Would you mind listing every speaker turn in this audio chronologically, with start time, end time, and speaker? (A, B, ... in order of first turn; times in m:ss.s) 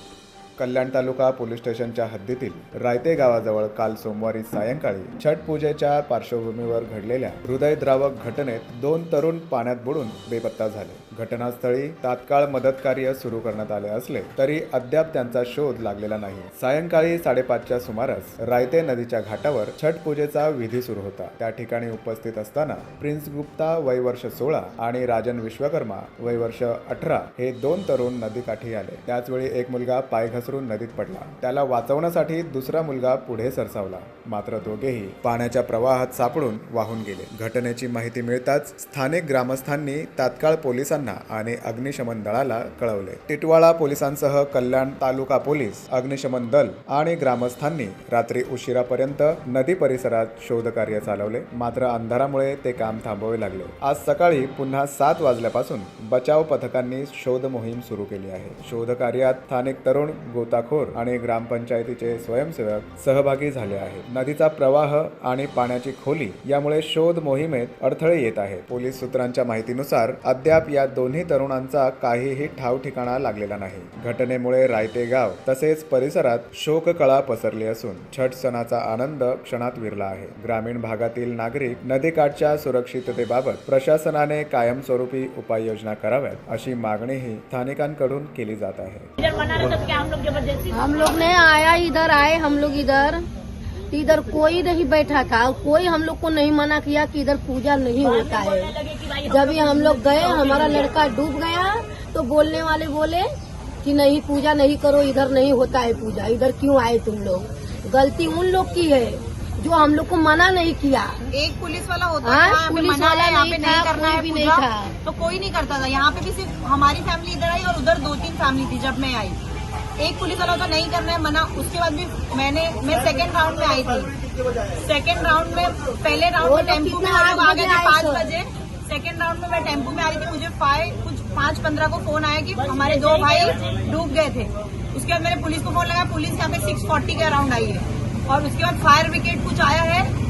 0:00.6-1:29.1 A
1:29.2-1:30.7 B
1:30.7-1:33.2 C
1:33.9-1:43.2 C
1:38.2-1:40.7 B
1:43.8-1:51.3 C
1:51.3-1:59.4 D
1:52.2-1:55.0 C
2:00.0-2:04.1 D
2:04.7-2:20.1 D
2:06.4-2:08.3 C